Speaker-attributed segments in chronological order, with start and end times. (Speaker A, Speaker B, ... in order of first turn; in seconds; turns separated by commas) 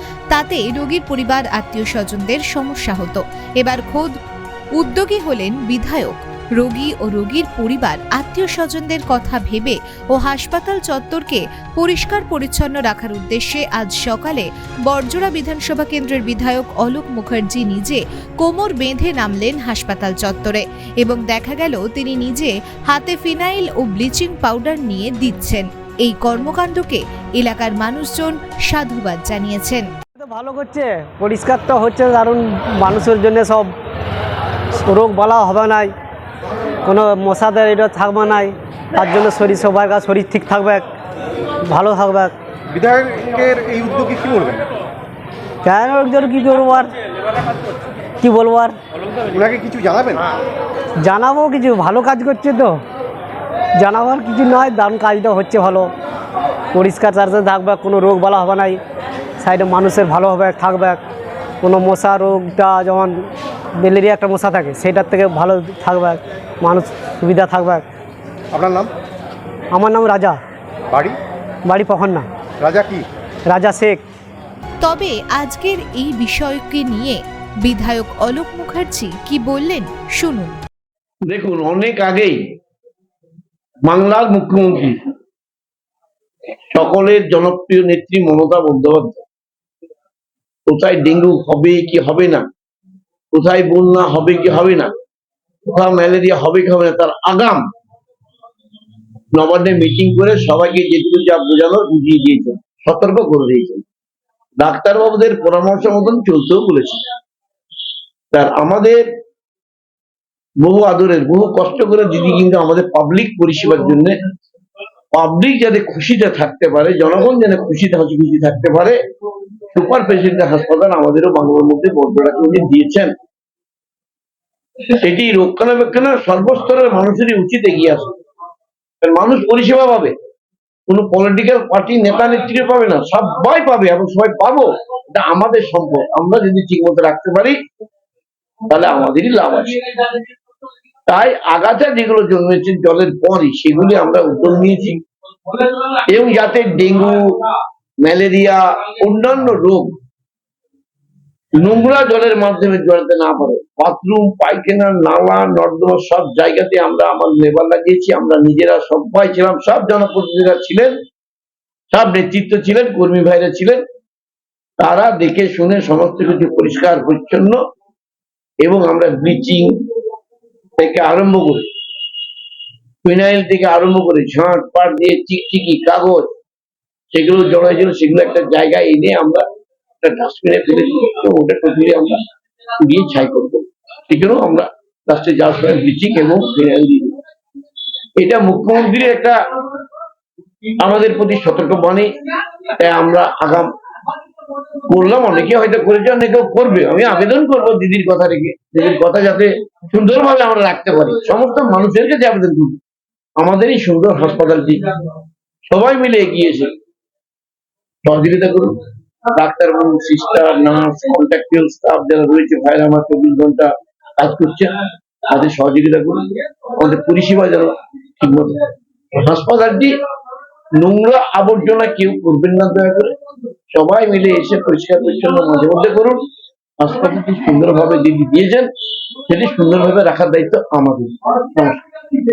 Speaker A: 0.3-4.1, Speaker A: 4.8-29.9, Speaker B: 30.2-33.7, Speaker B: 34.8-35.9, Speaker B: 36.8-40.8, Speaker B: 41.7-42.3, Speaker C: 42.7-44.6, Speaker B: 45.6-46.9, Speaker B: 48.2-48.8, Speaker C: 49.3-50.3, Speaker B: 51.0-52.8, Speaker B: 53.8-55.9, Speaker B: 56.7-58.8, Speaker B: 59.4-61.0, Speaker B: 61.6-63.2, Speaker B: 63.8-67.8, Speaker C: 68.5-68.9, Speaker B: 69.7-70.4, Speaker C: 70.9-71.2, Speaker B: 71.7-72.2, Speaker C: 72.6-73.0, Speaker B: 73.5-74.0, Speaker A: 74.8-80.5, Speaker D: 81.2-82.4, Speaker D: 83.8-85.1, Speaker D: 86.7-89.2, Speaker D: 90.7-92.5, Speaker D: 93.3-94.9, Speaker D: 95.7-97.6, Speaker D: 99.3-103.8, Speaker D: 104.6-107.0, Speaker D: 108.3-109.0, Speaker D: 110.6-114.1, Speaker D: 115.1-119.0, Speaker D: 119.7-123.1, Speaker D: 124.9-128.1, Speaker D: 129.0-130.1, Speaker D: 130.9-137.6, Speaker D: 138.7-139.8, Speaker D: 141.1-145.0, Speaker D: 145.5-147.4, Speaker D: 148.0-149.9, Speaker D: 151.6-160.9, Speaker D: 161.9-163.8, Speaker D: 164.8-167.6, Speaker D: 168.6-169.7, Speaker D: 170.8-171.7, Speaker D: 173.0-176.3, Speaker D: 177.1-179.4, Speaker D: 180.0-182.2, Speaker D: 182.8-187.2, Speaker D: 188.2-189.4, Speaker D: 190.8-192.2, Speaker D: 192.8-193.7, Speaker D: 194.9-202.8, Speaker D: 203.4-205.0, Speaker D: 205.7-206.7, Speaker D: 208.0-208.8, Speaker D: 209.3-218.6, Speaker D: 219.1-219.9, Speaker D: 220.8-223.1, Speaker D: 223.7-226.2, Speaker D: 226.8-228.7, Speaker D: 229.3-231.8